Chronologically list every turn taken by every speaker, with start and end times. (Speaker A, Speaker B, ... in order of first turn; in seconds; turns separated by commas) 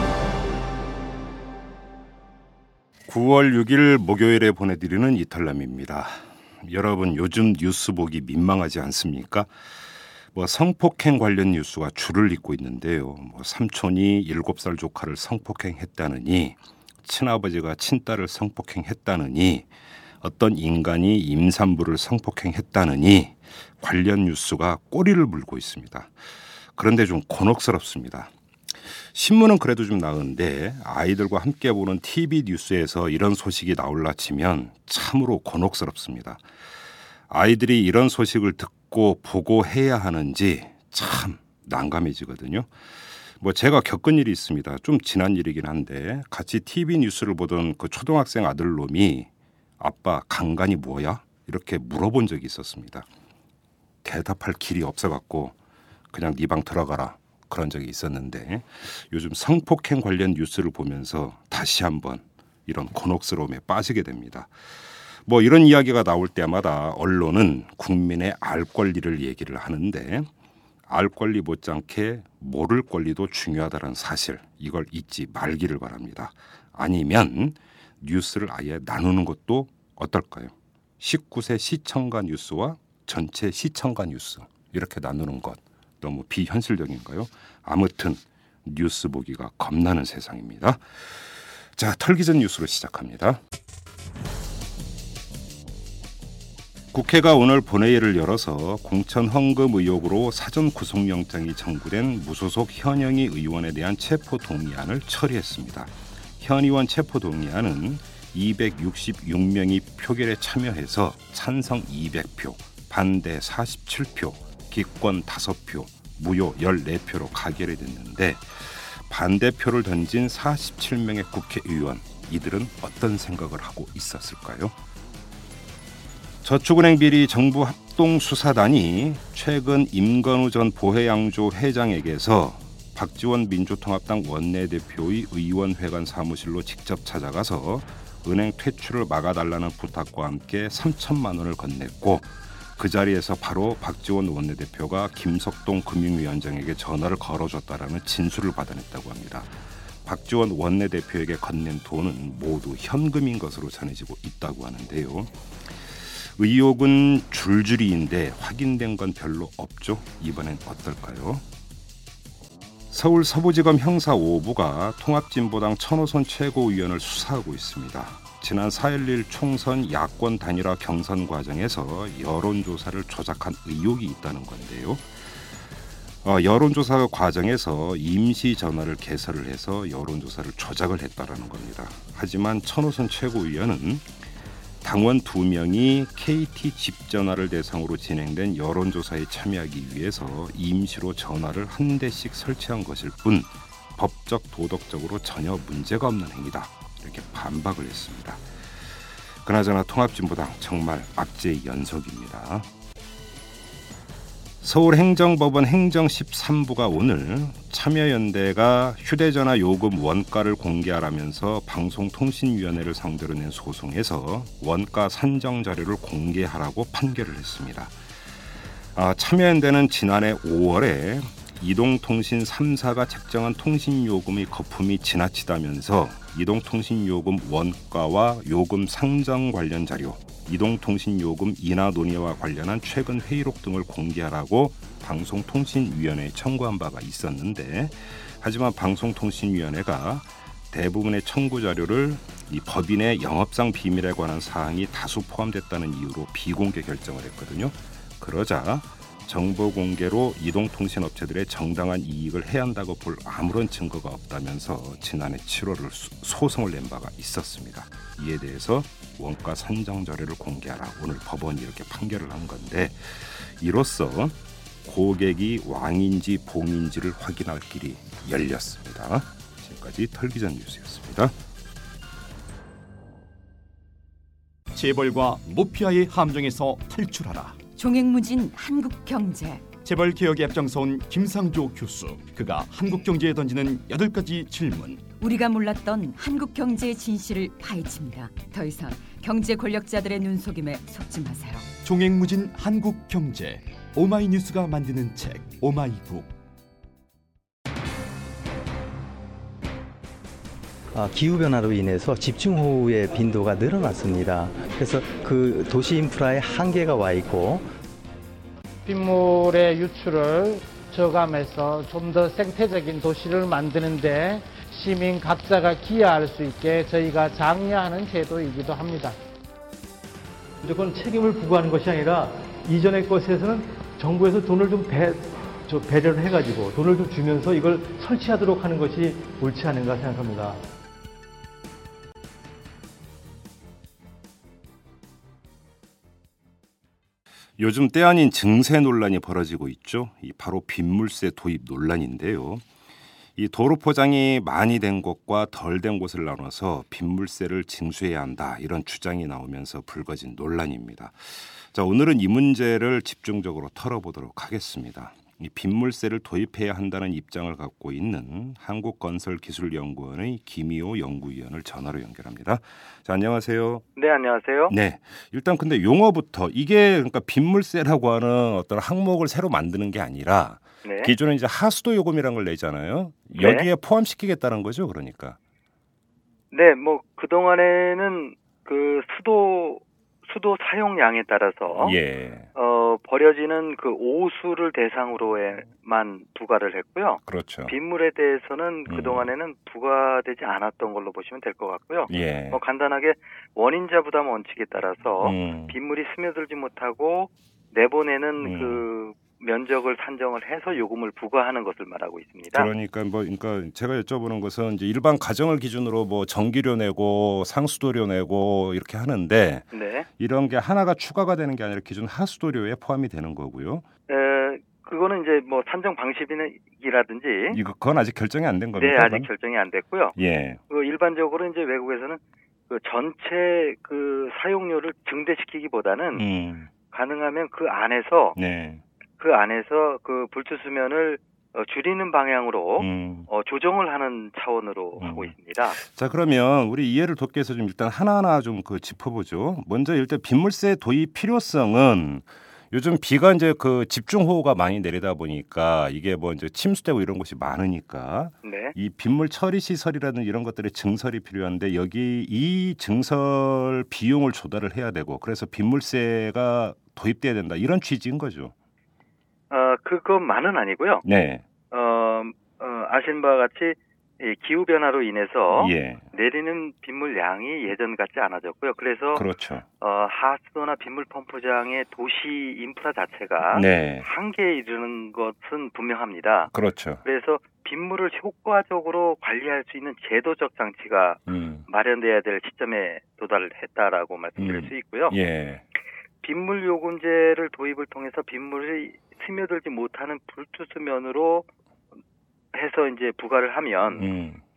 Speaker A: 3.1-9.5, Speaker A: 10.3-19.7, Speaker A: 20.2-26.1, Speaker A: 26.7-28.3, Speaker A: 29.1-36.4, Speaker A: 37.3-42.7, Speaker A: 43.4-49.3, Speaker A: 49.8-53.1, Speaker A: 54.0-55.5, Speaker A: 56.1-64.5, Speaker A: 65.2-70.3, Speaker A: 70.9-93.4, Speaker A: 96.9-124.8, Speaker A: 126.4-161.4, Speaker A: 162.9-175.1, Speaker A: 176.2-184.2, Speaker A: 184.8-202.7, Speaker A: 204.6-218.0, Speaker A: 218.9-271.3, Speaker B: 274.7-277.6, Speaker C: 277.8-279.6, Speaker B: 279.8-285.1, Speaker C: 285.2-291.7, Speaker B: 291.8-296.3, Speaker D: 300.9-307.7, Speaker E: 308.9-319.2, Speaker F: 320.6-330.6, Speaker A: 337.6-342.6, Speaker A: 343.4-363.8, Speaker G: 363.9-364.7, Speaker A: 364.7-375.4, Speaker G: 370.8-371.1, Speaker G: 373.4-373.7, Speaker G: 376.5-382.0, Speaker A: 381.7-382.5, Speaker G: 382.5-402.7, Speaker A: 387.2-387.7, Speaker A: 388.9-389.3, Speaker A: 392.1-392.6, Speaker A: 395.2-395.7, Speaker A: 398.4-398.8, Speaker A: 402.5-413.8, Speaker G: 409.7-410.1, Speaker G: 414.1-417.6, Speaker A: 417.5-419.3, Speaker G: 418.7-420.1, Speaker A: 420.1-420.6, Speaker G: 420.7-426.2, Speaker A: 426.1-426.7, Speaker G: 426.9-428.4, Speaker A: 428.4-428.8, Speaker G: 429.2-435.8, Speaker A: 432.8-433.3, Speaker A: 435.0-458.5, Speaker G: 448.4-448.7, Speaker G: 459.5-461.0, Speaker A: 461.0-461.4, Speaker G: 461.7-469.2, Speaker A: 465.6-466.0, Speaker A: 469.1-469.6, Speaker G: 469.8-476.5, Speaker A: 473.5-474.1, Speaker A: 476.5-477.0, Speaker G: 477.0-485.1, Speaker A: 481.3-481.6, Speaker A: 484.4-485.6, Speaker G: 486.2-491.5, Speaker G: 492.5-494.1, Speaker A: 494.0-494.4